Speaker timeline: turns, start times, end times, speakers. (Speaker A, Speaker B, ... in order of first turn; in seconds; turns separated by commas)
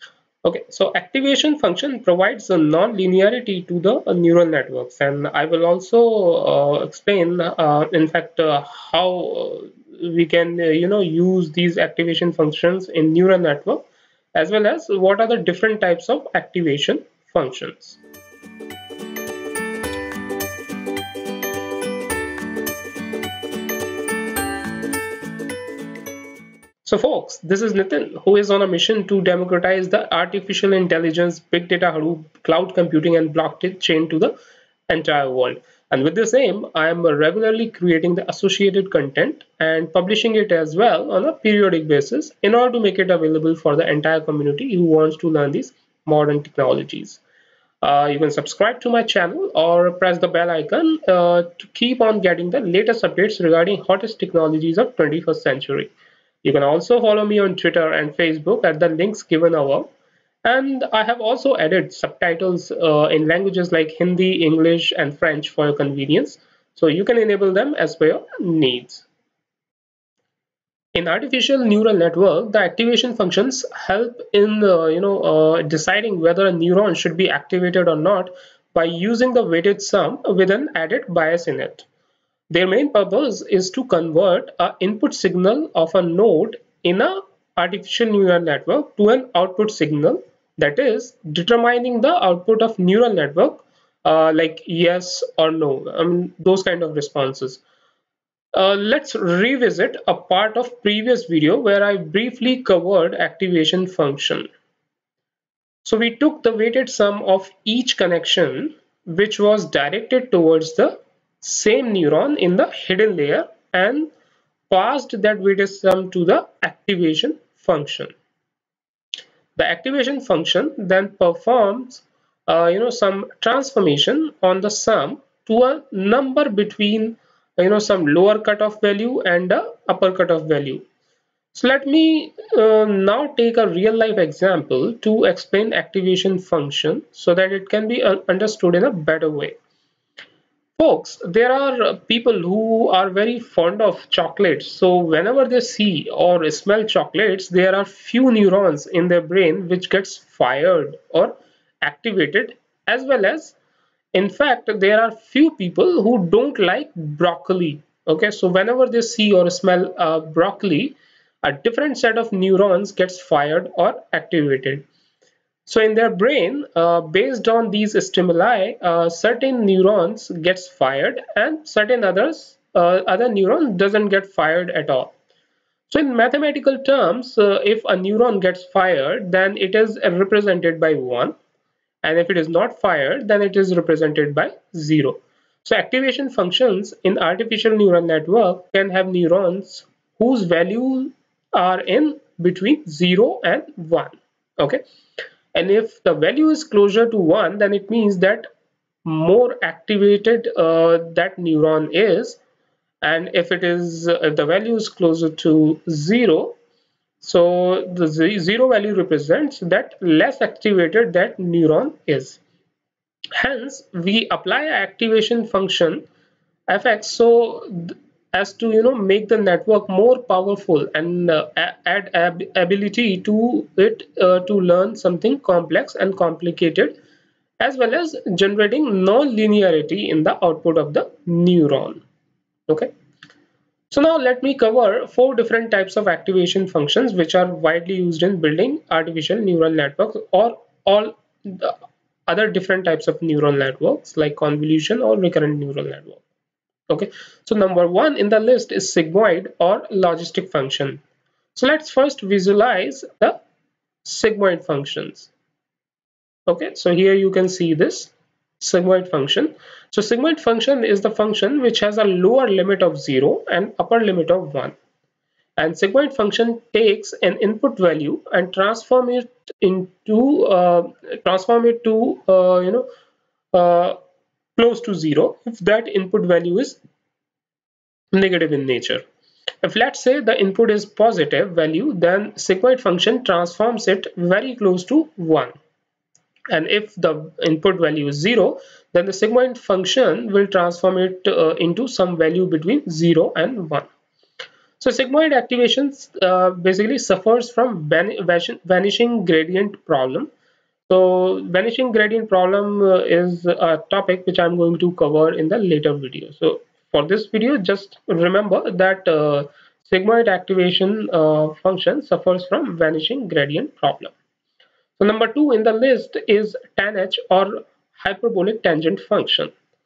Speaker A: 0.4-13.8, Speaker A: 14.3-18.0, Speaker A: 26.8-34.3, Speaker A: 34.9-47.2, Speaker A: 47.8-55.9, Speaker A: 56.4-59.9, Speaker A: 60.4-69.0, Speaker A: 70.9-81.8, Speaker A: 82.5-97.6, Speaker A: 98.5-104.5, Speaker A: 105.8-114.1, Speaker A: 114.7-118.1, Speaker A: 119.5-130.8, Speaker A: 131.5-139.6, Speaker A: 140.8-153.5, Speaker A: 154.1-164.8, Speaker A: 165.7-175.1, Speaker A: 175.9-181.3, Speaker A: 182.0-194.8, Speaker A: 195.5-198.5, Speaker A: 199.0-202.4, Speaker A: 203.0-206.6, Speaker A: 207.2-212.4, Speaker A: 213.3-216.1, Speaker A: 216.7-226.9, Speaker A: 227.6-232.0, Speaker A: 233.9-241.7, Speaker A: 242.3-246.2, Speaker A: 246.9-251.0, Speaker A: 251.5-253.4, Speaker A: 254.0-255.3, Speaker A: 256.5-264.8, Speaker A: 265.6-272.9, Speaker A: 273.5-274.0, Speaker A: 274.6-276.8, Speaker A: 278.1-279.0, Speaker A: 279.6-285.5, Speaker A: 286.5-293.9, Speaker A: 294.8-300.3, Speaker A: 300.9-314.1, Speaker A: 315.0-319.5